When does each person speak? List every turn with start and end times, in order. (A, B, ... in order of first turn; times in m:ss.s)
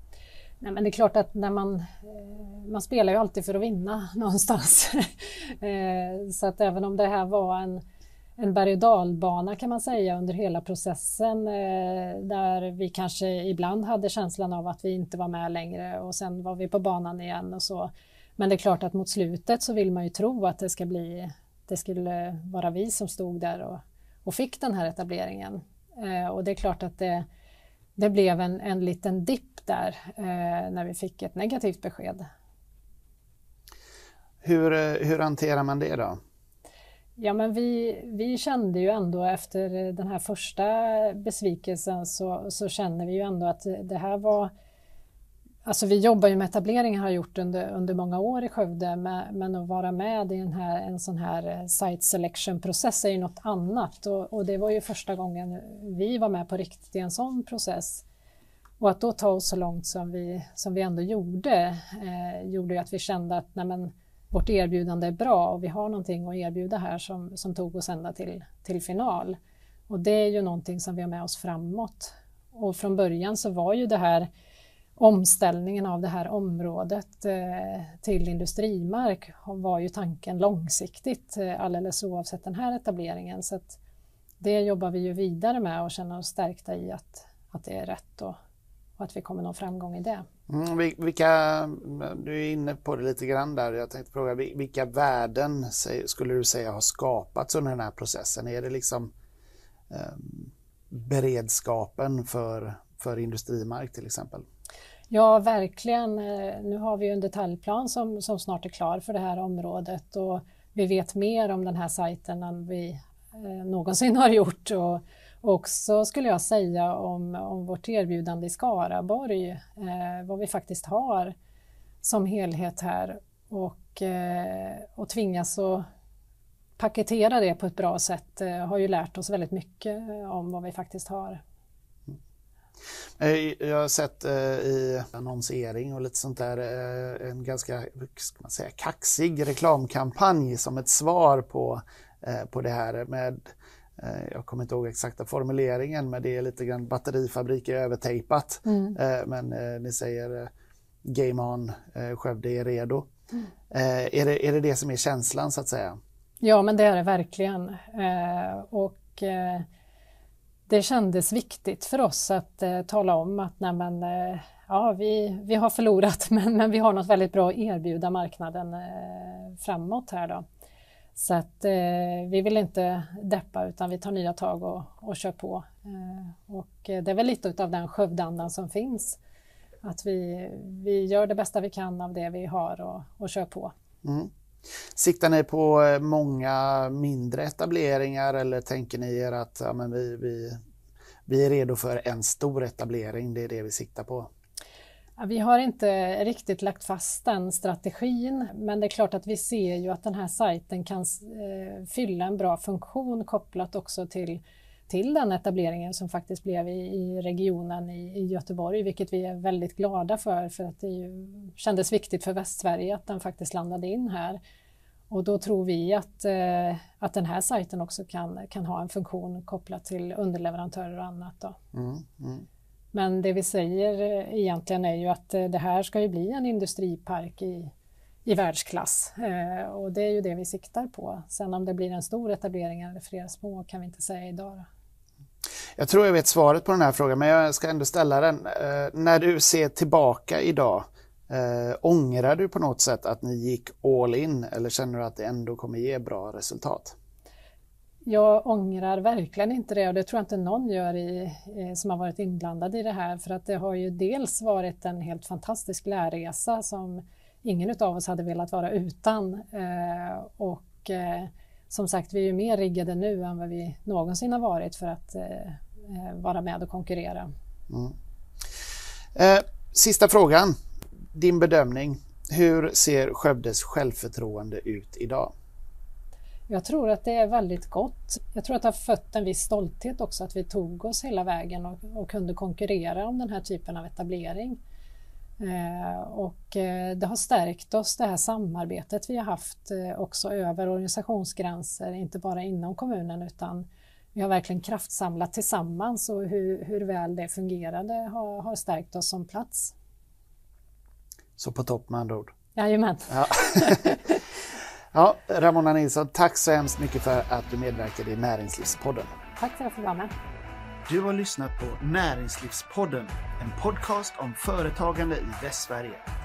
0:00.6-0:07.8 A
0:08.4-0:27.2 A
0:28.0-0:32.2 A
0:34.4-0:36.2 B
0:37.2-0:44.5 A
0:45.6-0:58.0 A
0:58.8-1:09.4 A
1:09.9-1:14.3 A
1:15.0-1:23.8 A
1:24.4-1:28.4 A
1:29.0-1:30.2 A
1:30.5-1:39.1 B
1:39.9-1:44.4 B
1:45.1-2:01.3 A
2:02.0-2:05.8 A
2:06.8-2:11.4 A
2:13.2-2:30.5 B
2:28.6-2:29.0 A
2:31.0-2:33.1 B
2:33.7-2:36.0 B
2:36.4-2:39.6 A
2:40.7-2:50.4 A
2:51.2-2:59.2 A
2:59.8-3:03.7 A
3:04.0-3:04.3 B
3:04.9-3:10.6 B
3:11.3-3:14.3 B
3:15.2-3:34.4 A
3:35.1-3:41.6 A
3:41.7-3:42.4 B
3:42.9-3:47.7 A
3:48.2-3:54.7 A
3:55.8-4:06.9 B
4:08.0-4:27.3 A
4:27.7-4:27.9 B
4:29.1-4:30.5 B
4:31.1-4:35.3 B
4:36.5-4:44.6 A
4:45.4-4:59.7 A
5:01.4-5:02.3 B
5:02.6-5:04.2 A
5:03.1-5:03.9 B
5:04.9-5:09.1 B
5:09.4-5:10.1 A
5:10.9-5:16.1 B